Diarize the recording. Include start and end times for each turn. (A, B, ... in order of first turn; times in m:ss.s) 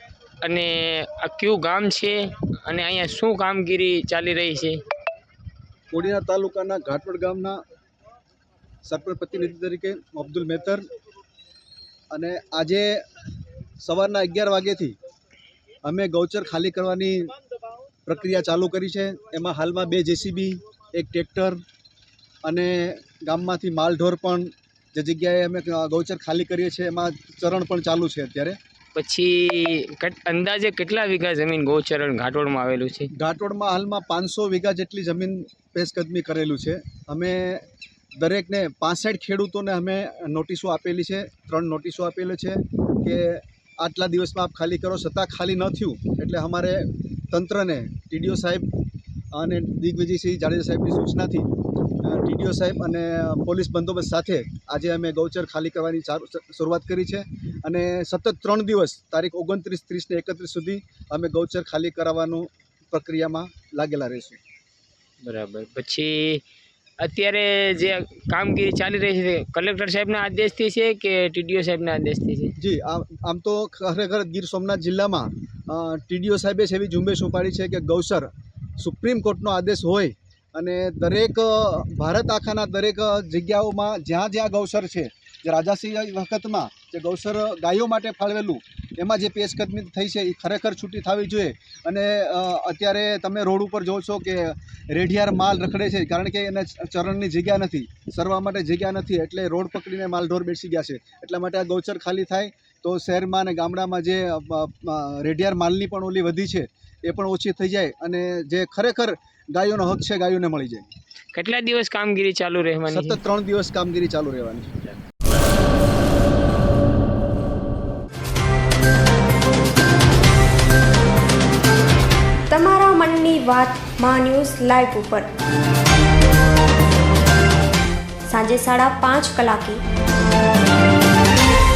0:00.4-0:04.8 A
0:05.9-0:07.6 B
0:08.8-0:10.8 B
0:12.1-0:13.0 B
0:13.8-0:15.0 B
0:15.8-0:17.3 B
0:18.0-0:21.6 B
0:22.4-0:28.6 B
0:29.0-0:33.1 A
0:33.1-0:37.6 B
0:38.2-0:48.7 B
0:49.3-0:51.5 B
0:52.0-1:04.4 B
1:05.2-1:06.4 A
1:07.0-1:12.5 A
1:12.6-1:50.9 B
1:51.3-1:53.2 A
1:52.9-1:55.0 B
2:02.5-2:05.3 C
2:08.3-2:09.8 C